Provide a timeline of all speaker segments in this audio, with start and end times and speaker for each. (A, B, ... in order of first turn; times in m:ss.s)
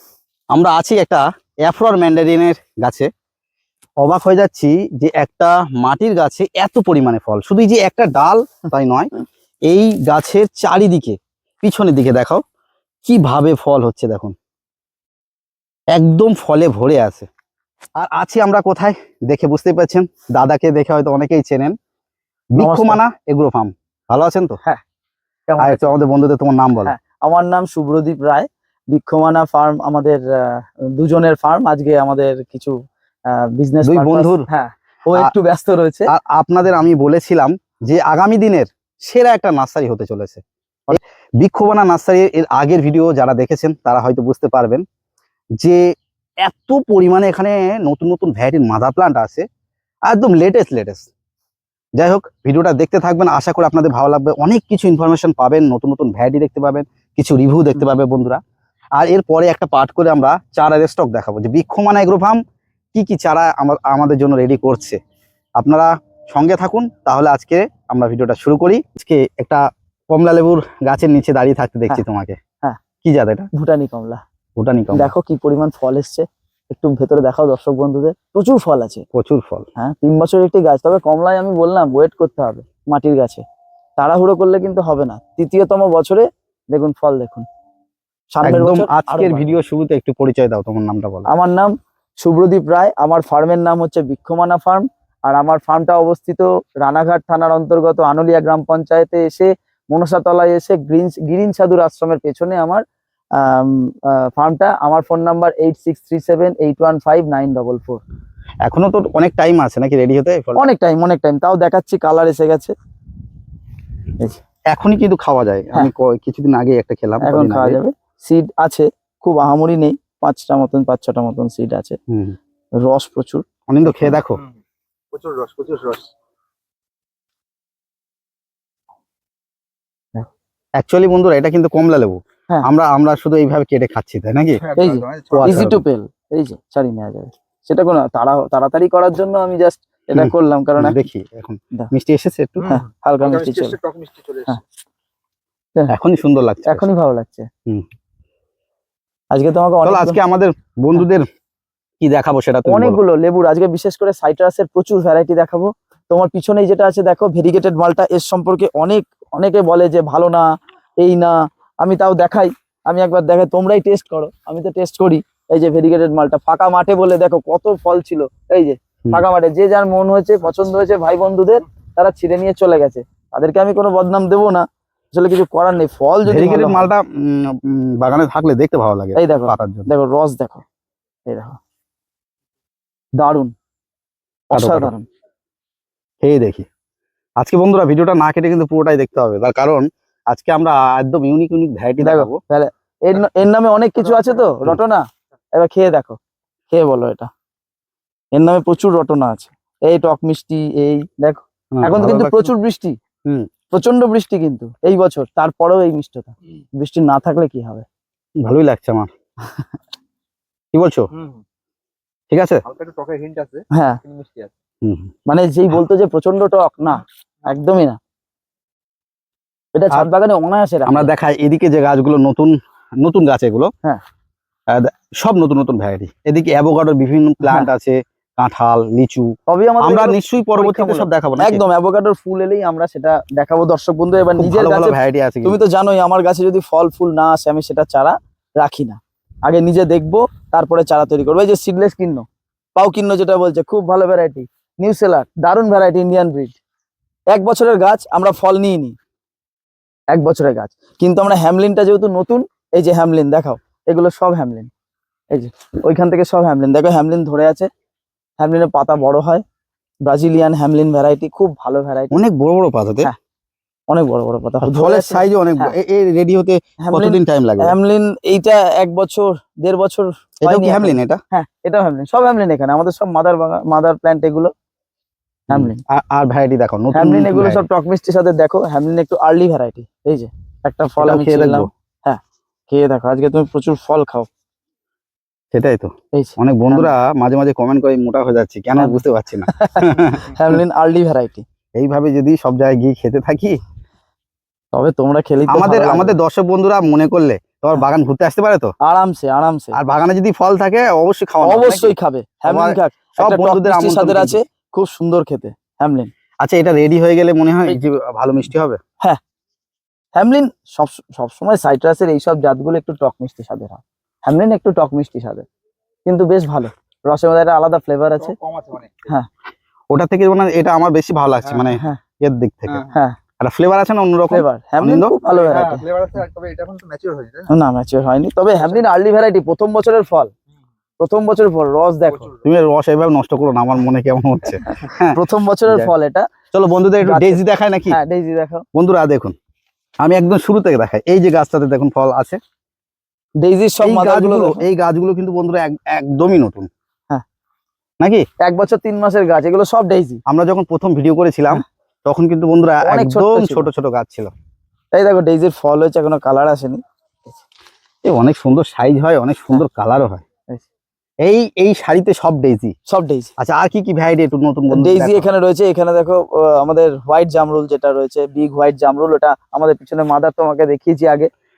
0:00.5-0:03.1 A
0:04.0-0:09.1 A
0:09.7-0:12.4 A
0:13.0-0:14.4 A
0:15.9-0:17.3 A
0:18.0-0:21.8 A
0:22.6-0:24.6 A
0:22.6-0:23.0 B
0:25.5-0:26.0 B
0:25.6-0:27.0 A
0:26.8-0:32.8 B
0:33.3-0:36.1 B
0:33.8-0:34.5 A
0:36.1-0:40.4 A
0:41.0-0:44.8 A
0:45.6-0:45.9 A
0:46.4-0:49.4 A
0:50.1-0:51.1 A
0:52.0-0:58.4 A
0:59.0-1:02.4 A
1:02.9-1:05.0 A
1:05.6-1:12.4 A
1:13.0-1:13.5 A
1:13.5-1:14.2 B
1:14.6-1:15.1 A
1:14.9-1:19.0 B
1:19.1-1:19.7 A
1:19.8-1:23.4 B
1:24.0-1:27.4 B
1:28.3-1:29.5 B
1:28.4-1:31.3 A
1:31.3-1:42.8 B
1:43.4-1:48.0 B
1:48.6-1:50.7 A
1:50.6-1:52.7 B
1:54.7-1:57.8 A
1:57.2-2:02.0 B
2:02.1-2:02.4 A
2:02.8-2:04.2 B
2:03.7-2:04.4 A
2:05.1-2:06.1 C
2:10.8-2:14.6 A
2:14.6-2:15.7 C
2:14.8-2:21.0 B
2:15.3-2:15.8 A
2:20.2-2:22.7 A
2:22.6-2:24.6 C
2:22.7-2:23.8 B
2:25.9-2:26.9 A
2:26.7-2:27.5 B
2:29.3-2:30.2 B
2:29.8-2:31.3 A
2:32.0-2:33.0 A
2:32.7-2:40.5 B
2:41.0-2:56.9 B
2:56.2-2:59.9 A
2:59.2-3:00.6 B
3:01.3-3:01.6 B
3:03.2-3:03.5 B
3:04.5-3:05.1 B
3:04.5-3:04.9 A
3:06.2-3:06.7 A
3:07.4-3:12.4 A
3:12.0-3:15.0 B
3:15.5-3:16.2 B
3:16.7-3:17.3 B
3:18.3-3:23.0 B
3:21.8-3:22.5 A
3:23.7-3:27.8 B
3:28.4-3:29.1 A
3:30.7-3:31.1 A
3:31.1-3:31.4 C
3:32.3-3:32.6 A
3:32.6-3:34.5 C
3:33.7-3:34.0 B
3:34.8-3:35.1 A
3:35.3-3:38.0 B
3:39.8-3:41.1 B
3:40.8-3:43.7 A
3:44.7-3:51.6 A
3:49.5-4:06.6 B
3:54.4-3:55.6 A
4:07.3-4:09.0 B
4:10.1-4:14.7 B
4:15.3-4:17.7 B
4:18.4-4:19.4 B
4:20.0-4:22.2 B
4:22.1-4:23.1 A
4:23.9-4:25.7 B
4:24.6-4:27.8 A
4:26.8-4:34.5 B
4:30.4-4:31.2 A
4:35.5-4:35.8 B
4:35.5-4:37.6 A
4:36.9-4:44.3 B
4:41.0-4:41.7 A
4:45.5-4:50.6 A
4:46.1-4:46.9 B
4:48.8-4:51.4 B
4:51.7-4:53.6 A
4:54.7-4:56.2 B
4:55.5-4:58.7 A
4:58.8-4:59.8 B
4:59.7-5:01.9 A
5:01.4-5:06.1 B
5:02.4-5:04.4 A
5:06.4-5:08.8 A
5:10.1-5:15.4 B
5:16.0-5:18.3 B
5:18.2-5:19.1 C
5:19.9-5:22.8 A
5:21.4-5:21.7 C
5:21.7-5:22.0 B
5:22.7-5:23.0 C
5:23.4-5:25.1 A
5:24.3-5:25.8 B
5:25.3-5:27.5 C
5:27.5-5:30.3 B
5:31.0-5:32.3 B
5:32.1-5:32.4 C
5:32.4-5:35.9 A
5:34.7-5:36.3 B
5:36.5-5:38.0 A
5:37.0-5:38.6 B
5:38.7-5:39.3 A
5:40.0-5:42.4 A
5:43.4-5:44.6 B
5:43.8-5:46.7 A
5:48.0-5:48.2 A
5:48.4-5:50.2 B
5:50.2-5:54.3 A
5:52.8-5:53.7 B
5:54.9-5:57.4 B
5:58.0-6:00.2 A
6:01.2-6:02.7 A
6:02.9-6:03.3 B
6:03.4-6:05.3 A
6:04.7-6:11.3 B